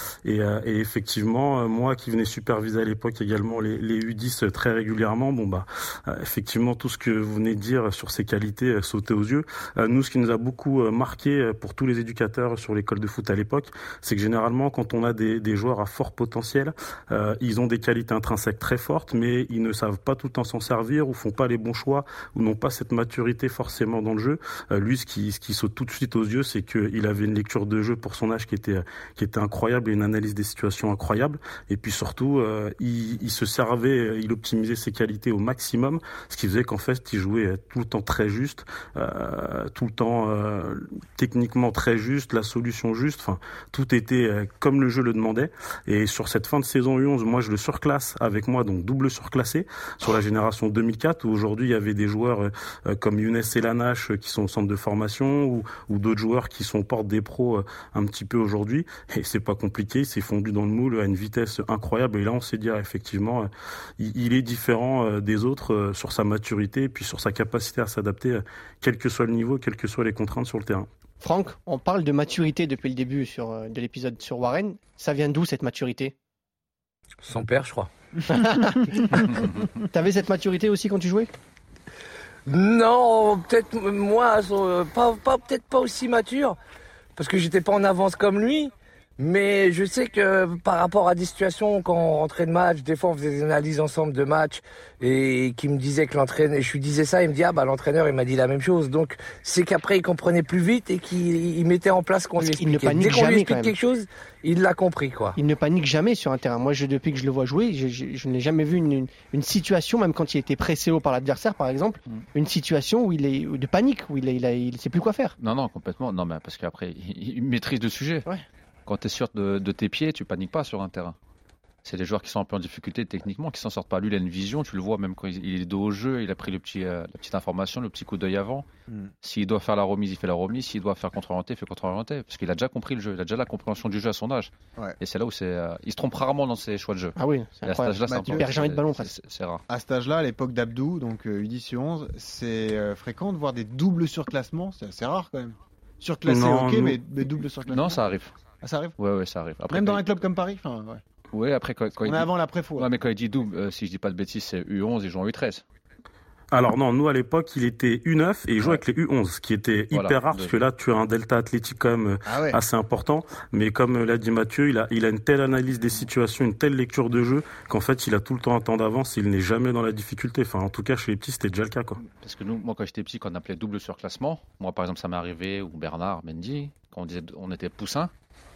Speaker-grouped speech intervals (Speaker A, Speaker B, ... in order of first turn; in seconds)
Speaker A: 0.2-63.5, 64.0-70.9, 146.3-147.0, 156.5-172.0
Speaker B: 71.2-76.1, 78.3-81.3, 102.4-103.7, 105.4-115.4, 137.2-139.1
Speaker C: 77.2-77.9, 82.5-86.6, 87.2-105.4
Speaker D: 115.4-118.3, 118.9-121.2, 121.8-128.7, 129.2-139.6, 147.7-148.3, 149.0-150.1, 151.3-155.6, 159.9-160.6, 172.1-178.1
Speaker E: 138.1-138.5, 139.7-148.0, 148.6-149.0, 149.7-151.0, 152.0-152.9, 162.3-162.6